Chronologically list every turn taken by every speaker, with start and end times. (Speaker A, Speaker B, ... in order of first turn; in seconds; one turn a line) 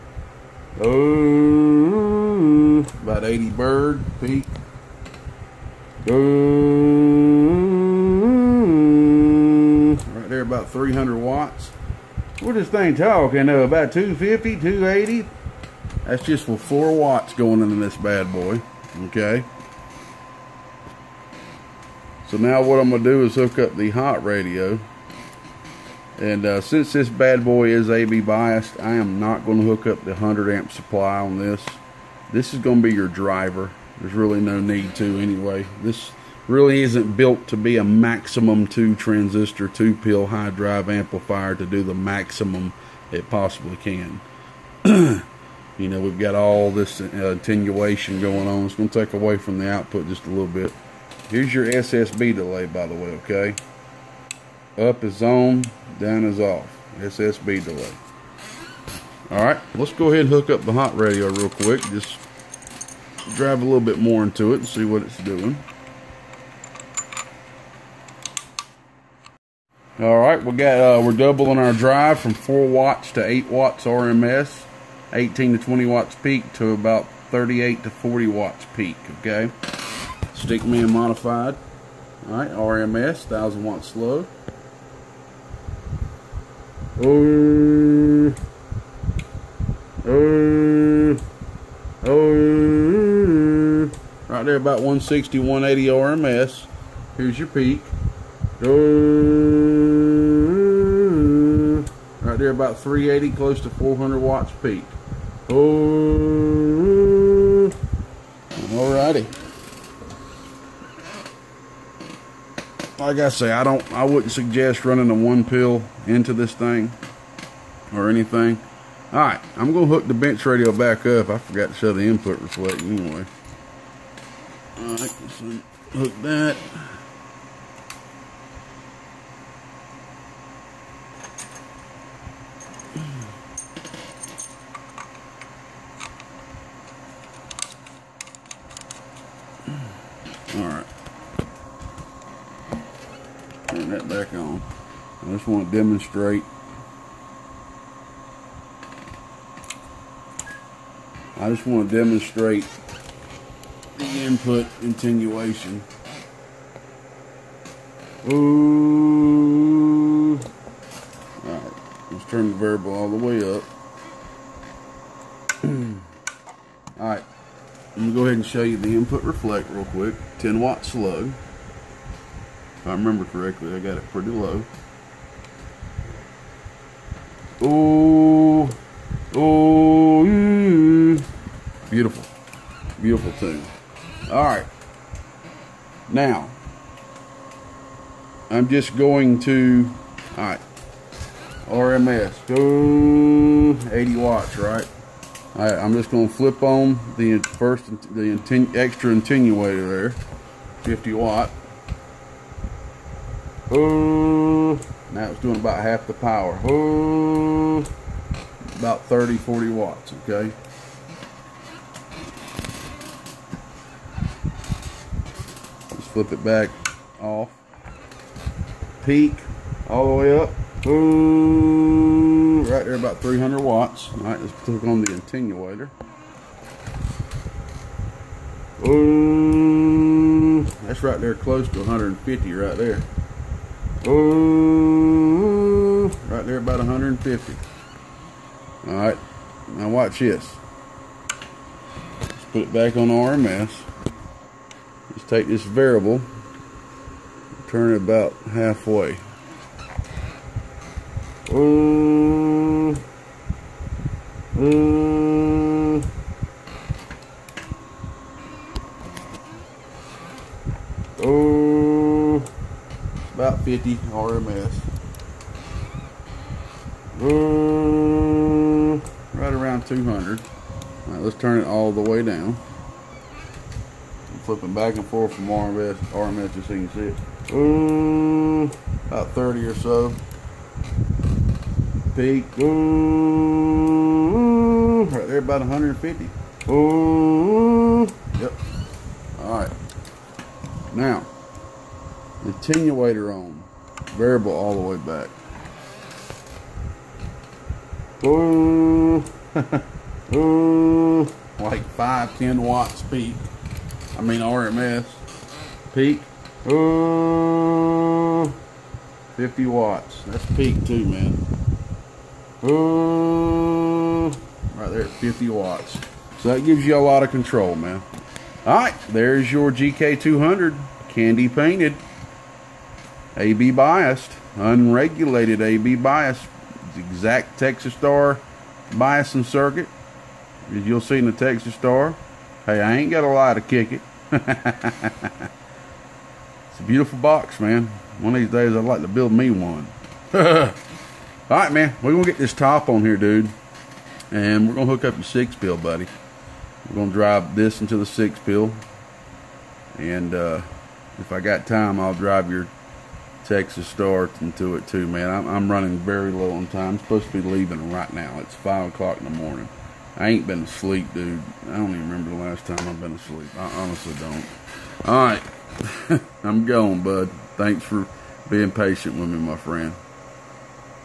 Speaker A: 0.8-4.5
Speaker A: 6.0-11.7
Speaker A: 12.4-15.3
Speaker A: 16.0-19.5
Speaker A: 22.2-24.8
Speaker A: 26.2-44.2
Speaker A: 44.8-50.8
Speaker A: 51.3-53.6
Speaker A: 54.8-58.0
Speaker A: 59.3-62.2
Speaker A: 63.2-65.7
Speaker A: 70.0-79.5
Speaker A: 80.3-81.6
Speaker A: 82.2-84.3
Speaker A: 87.0-88.4
Speaker A: 90.0-91.2
Speaker A: 92.0-97.9
Speaker A: 98.6-107.7
Speaker A: 108.5-109.3
Speaker A: 113.0-117.0
Speaker A: 117.9-123.3
Speaker A: 124.8-127.0
Speaker A: 140.5-140.9
Speaker A: 143.7-144.7
Speaker A: 145.2-146.5
Speaker A: 151.3-152.7
Speaker A: 153.9-155.9
Speaker A: 158.2-160.4
Speaker A: 161.4-163.7
Speaker A: 165.6-166.0
Speaker A: 167.0-167.2
Speaker A: 167.9-171.4
Speaker A: 172.8-174.7
Speaker A: 177.6-178.8
Speaker A: 179.3-181.3
Speaker A: 181.9-182.3
Speaker A: 183.0-183.7
Speaker A: 184.3-184.7
Speaker A: 186.1-186.6
Speaker A: 188.5-190.6
Speaker A: 191.7-194.9
Speaker A: 195.5-200.2
Speaker A: 200.8-201.6
Speaker A: 203.7-207.9
Speaker A: 208.7-210.5
Speaker A: 215.9-217.6
Speaker A: 219.0-225.9
Speaker A: 228.8-233.1
Speaker A: 234.0-237.6
Speaker A: 238.8-240.6
Speaker A: 242.3-243.9
Speaker A: 245.1-246.3
Speaker A: 247.6-249.2
Speaker A: 251.5-253.0
Speaker A: 254.5-256.1
Speaker A: 261.2-262.5
Speaker A: 263.3-264.9
Speaker A: 267.1-270.5
Speaker A: 271.0-272.6
Speaker A: 274.3-280.2
Speaker A: 282.1-288.6
Speaker A: 289.4-289.7
Speaker A: 290.9-291.3
Speaker A: 292.4-295.3
Speaker A: 298.2-303.4
Speaker A: 304.1-305.2
Speaker A: 305.9-308.6
Speaker A: 309.3-311.4
Speaker A: 312.6-318.0
Speaker A: 318.6-322.0
Speaker A: 323.3-329.9
Speaker A: 330.6-335.5
Speaker A: 336.7-340.8
Speaker A: 341.5-343.5
Speaker A: 344.3-346.1
Speaker A: 346.8-348.8
Speaker A: 350.0-352.7
Speaker A: 353.4-364.5
Speaker A: 365.0-370.0